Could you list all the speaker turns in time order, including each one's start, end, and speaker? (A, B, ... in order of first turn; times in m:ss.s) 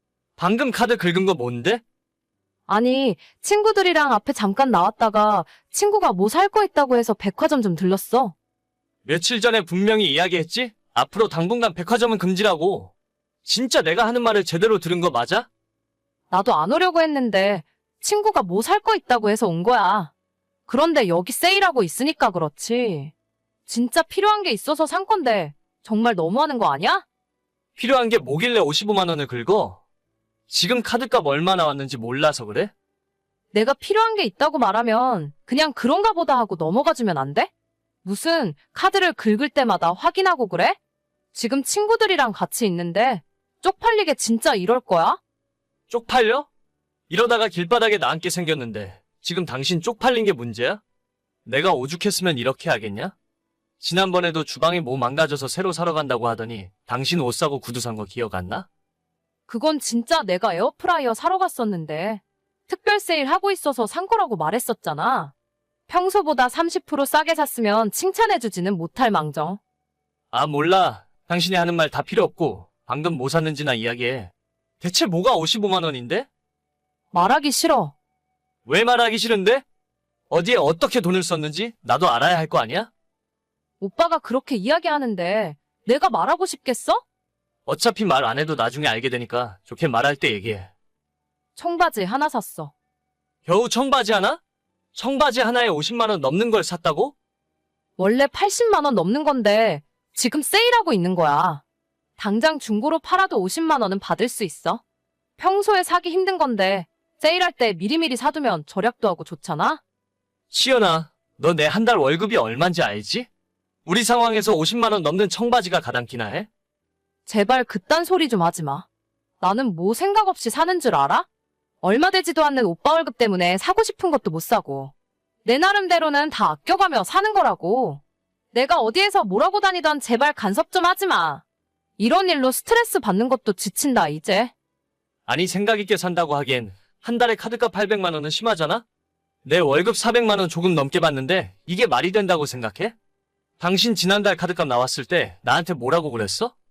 0:00.4-0:01.8 A
0:02.7-0:08.4 B
0:09.0-0:12.9 A
0:13.4-0:15.5 A
0:16.3-0:20.1 B
0:20.7-0:23.1 B
0:23.7-0:27.0 B
0:27.8-0:29.8 A
0:30.5-0:32.7 A
0:33.5-0:37.5 B
0:38.0-0:40.8 B
0:41.3-0:45.2 B
0:45.9-0:46.5 A
0:47.1-0:50.8 A
0:51.5-0:53.1 A
0:53.8-0:58.7 A
0:59.5-1:05.3 B
1:05.9-1:09.6 B
1:10.3-1:16.3 A
1:17.1-1:17.9 B
1:18.7-1:19.6 A
1:20.3-1:22.9 A
1:23.8-1:27.0 B
1:27.7-1:30.7 A
1:31.6-1:32.7 B
1:33.5-1:34.4 A
1:35.0-1:37.2 A
1:38.0-1:41.6 B
1:42.2-1:44.8 B
1:45.4-1:49.8 B
1:50.5-1:53.3 A
1:53.9-1:56.5 A
1:57.3-1:58.9 B
1:59.4-2:01.3 B
2:01.8-2:04.9 B
2:05.4-2:08.0 B
2:08.5-2:11.4 B
2:12.0-2:14.5 B
2:15.3-2:18.8 A
2:19.4-2:23.0 A
2:23.6-2:26.5 A